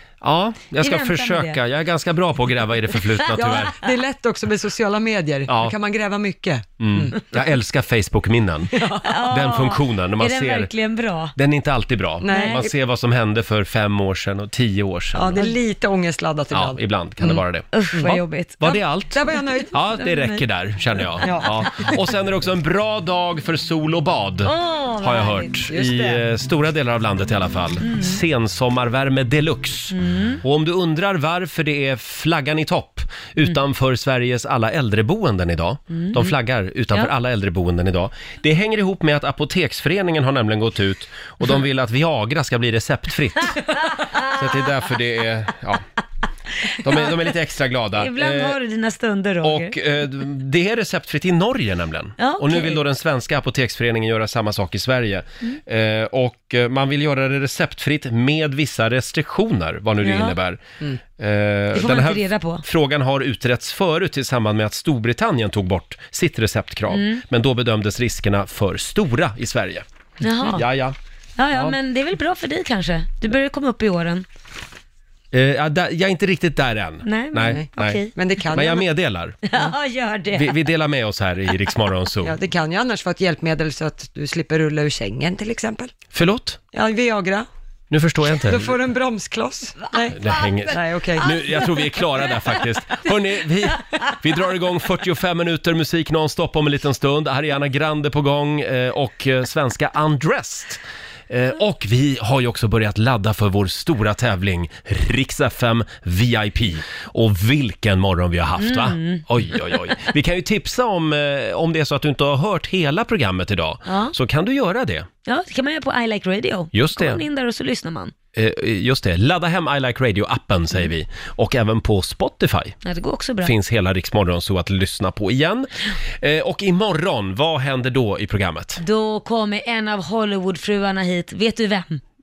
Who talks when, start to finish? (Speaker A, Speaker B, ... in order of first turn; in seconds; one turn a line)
Speaker A: 0.2-3.8
Speaker B: 0.8-1.6
Speaker C: 3.3-7.2
Speaker A: 5.5-5.7
Speaker A: 6.8-8.8
Speaker C: 8.7-9.2
Speaker B: 9.0-11.3
Speaker A: 9.3-10.7
Speaker A: 11.3-15.4
Speaker C: 12.2-12.7
Speaker B: 12.3-12.6
Speaker C: 15.1-16.8
Speaker A: 16.5-17.7
Speaker B: 17.7-18.6
Speaker C: 17.9-19.7
Speaker A: 18.6-43.6
Speaker B: 19.8-20.4
Speaker B: 21.2-21.9
Speaker C: 21.2-21.9
Speaker B: 24.4-25.6
Speaker C: 25.7-26.2
Speaker B: 27.9-28.2
Speaker B: 29.9-30.4
Speaker B: 35.9-36.3
Speaker B: 44.0-44.3
Speaker A: 44.2-45.8
Speaker A: 46.8-48.6
Speaker B: 46.8-47.1
Speaker B: 48.0-49.7
Speaker A: 49.4-60.6
Speaker B: 52.2-52.8
Speaker B: 60.0-60.3
Speaker A: 61.1-69.8
Speaker B: 61.7-62.6
Speaker B: 66.9-67.2
Speaker B: 70.2-70.7
Speaker A: 70.5-71.0
Speaker B: 71.4-74.2
Speaker A: 75.3-78.0
Speaker B: 77.0-78.1
Speaker C: 77.5-78.9
Speaker A: 78.5-79.4
Speaker B: 79.5-80.6
Speaker A: 80.3-82.4
Speaker C: 82.2-85.9
Speaker A: 86.1-86.6
Speaker C: 86.7-87.5
Speaker A: 87.9-88.7
Speaker C: 88.2-91.4
Speaker B: 89.9-92.6
Speaker A: 90.1-115.1
Speaker B: 108.6-109.2
Speaker B: 113.8-114.1
Speaker B: 115.2-118.1
Speaker A: 116.7-117.2
Speaker A: 118.3-122.8
Speaker B: 122.8-123.5
Speaker A: 123.4-128.8
Speaker B: 128.8-132.0